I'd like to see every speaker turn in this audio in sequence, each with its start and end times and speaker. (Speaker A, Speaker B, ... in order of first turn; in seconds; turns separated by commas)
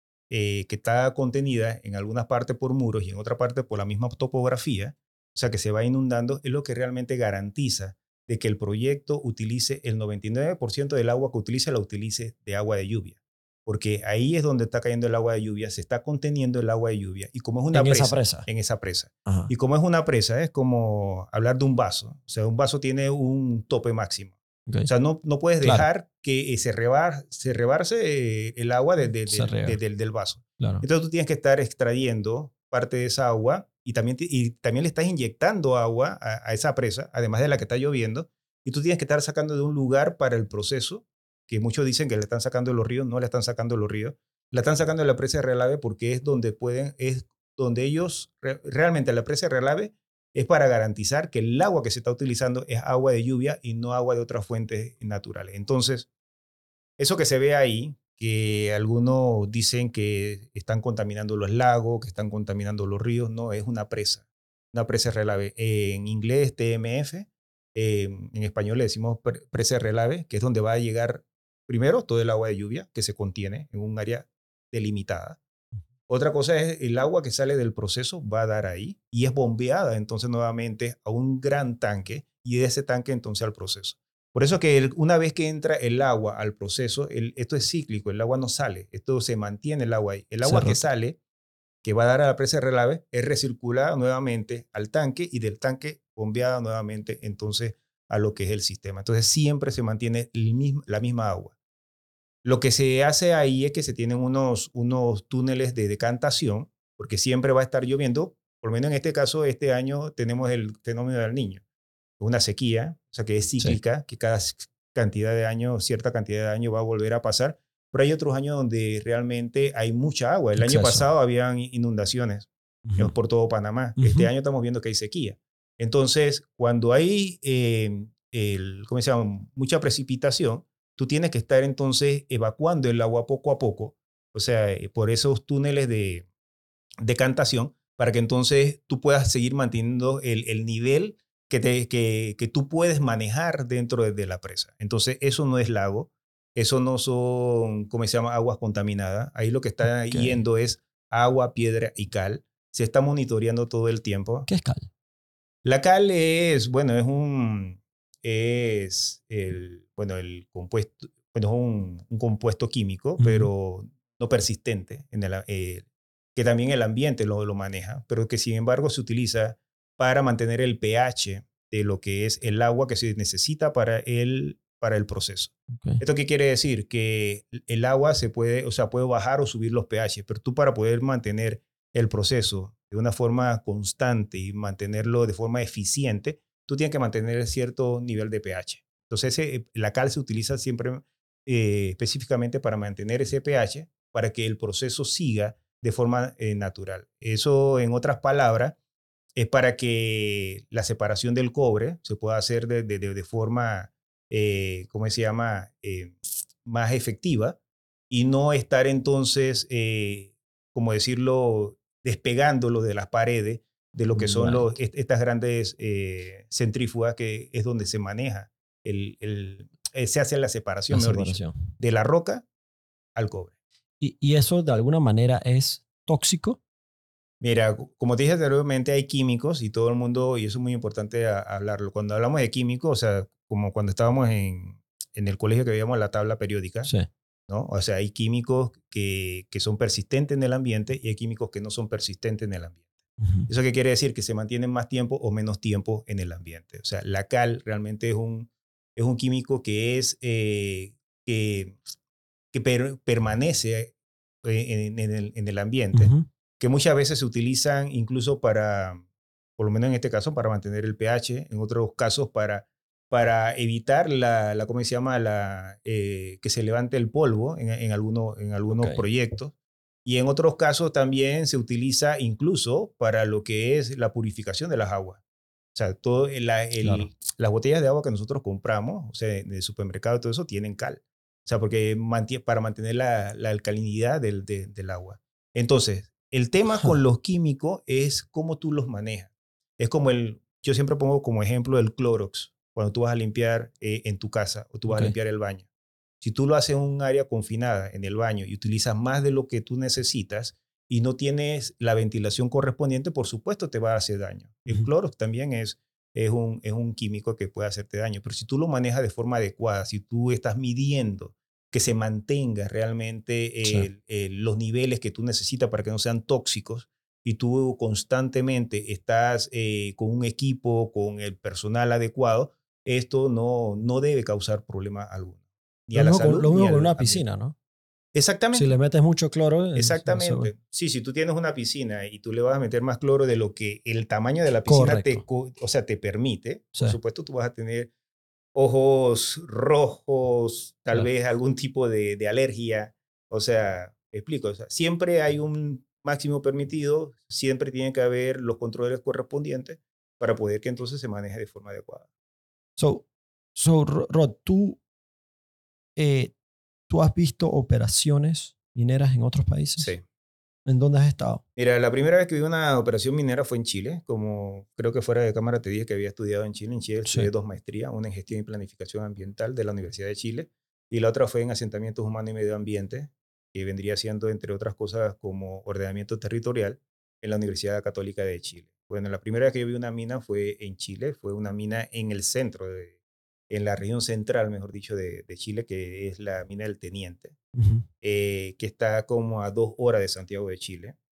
Speaker A: 0.3-56.1, Speaker B: 17.7-18.5, Speaker B: 19.2-19.5, Speaker B: 29.3-29.8, Speaker B: 30.6-30.8, Speaker A: 57.0-75.4, Speaker A: 76.1-91.2, Speaker B: 90.4-90.8, Speaker A: 91.8-101.6, Speaker A: 102.4-111.6, Speaker A: 112.2-136.3, Speaker B: 120.6-121.1, Speaker B: 122.8-123.1, Speaker B: 124.0-124.3, Speaker A: 137.0-154.5, Speaker B: 150.1-150.4, Speaker B: 154.5-154.9, Speaker A: 155.6-198.8, Speaker B: 163.2-163.5, Speaker B: 175.7-176.0, Speaker A: 199.4-207.6, Speaker A: 208.1-222.4, Speaker B: 214.1-214.7, Speaker B: 220.9-221.6, Speaker A: 223.1-223.5, Speaker B: 224.0-226.6, Speaker A: 227.4-236.9, Speaker A: 237.5-242.8, Speaker B: 243.2-243.5, Speaker A: 243.5-251.8, Speaker A: 252.5-259.0, Speaker B: 255.9-256.3, Speaker A: 259.6-269.5, Speaker B: 268.7-269.0, Speaker A: 270.0-275.2, Speaker A: 275.7-295.6, Speaker B: 276.8-277.1, Speaker B: 294.9-295.1, Speaker A: 296.2-327.2, Speaker B: 325.9-327.5, Speaker A: 328.1-328.7, Speaker B: 328.5-330.5, Speaker A: 329.7-337.9, Speaker B: 334.7-335.2, Speaker A: 338.5-352.1, Speaker B: 352.8-354.8, Speaker B: 355.9-356.4, Speaker B: 356.9-359.9, Speaker A: 359.8-360.0, Speaker B: 360.6-361.4, Speaker A: 361.6-382.9, Speaker A: 383.5-387.4, Speaker B: 387.5-387.9, Speaker A: 388.0-390.9